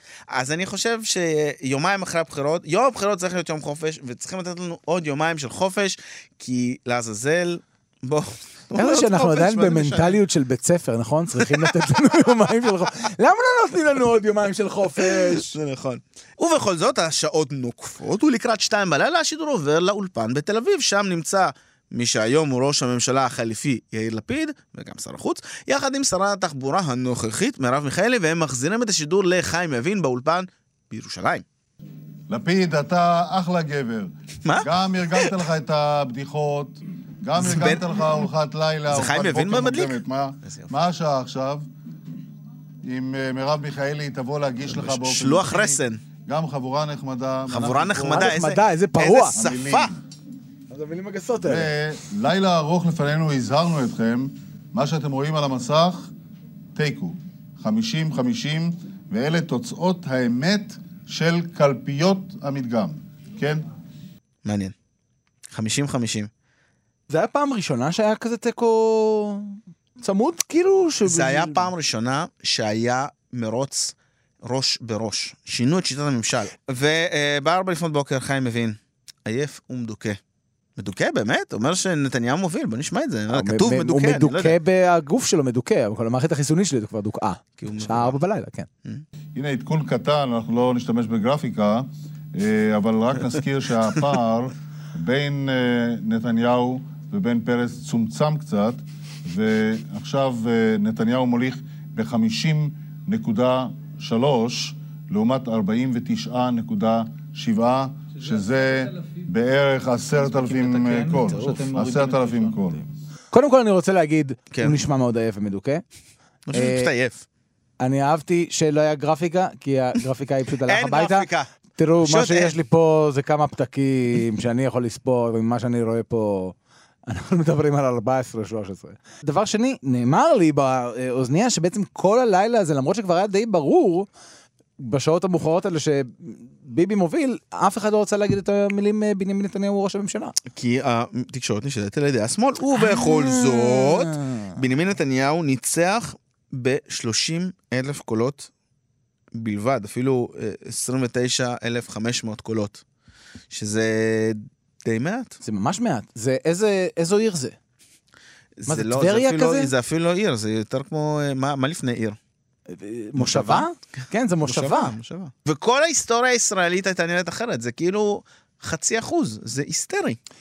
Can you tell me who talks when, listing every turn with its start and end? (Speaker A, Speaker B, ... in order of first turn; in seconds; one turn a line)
Speaker A: 0.3-10.2
Speaker B: 8.8-15.5
Speaker A: 15.0-31.4
Speaker C: 32.3-41.7
Speaker A: 34.4-35.3
Speaker A: 37.4-37.9
Speaker A: 38.9-40.7
Speaker C: 42.8-48.0
Speaker A: 44.7-46.0
Speaker A: 47.5-49.9
Speaker B: 48.0-49.3
Speaker C: 49.3-50.0
Speaker B: 50.7-51.7
Speaker C: 51.4-56.1
Speaker C: 56.7-63.6
Speaker A: 64.4-64.7
Speaker A: 65.5-66.3
Speaker B: 67.1-71.7
Speaker A: 71.0-80.2
Speaker A: 80.8-84.6
Speaker B: 83.3-88.7
Speaker A: 87.6-88.2
Speaker C: 89.3-112.8
Speaker B: 111.1-111.7
Speaker B: 113.3-115.8
Speaker A: 116.5-117.2
Speaker B: 116.5-116.9
Speaker B: 117.8-121.2
Speaker A: 120.7-121.5
Speaker B: 121.8-126.5
Speaker A: 122.0-122.5
Speaker B: 127.1-134.1
Speaker B: 134.8-140.3
Speaker A: 140.5-148.5
Speaker B: 142.8-144.5
Speaker A: 149.3-152.8
Speaker A: 153.5-155.4
Speaker B: 155.4-157.6
Speaker A: 158.6-162.2
Speaker B: 158.7-159.7
Speaker B: 162.7-164.9
Speaker A: 163.2-163.7
Speaker A: 164.4-170.2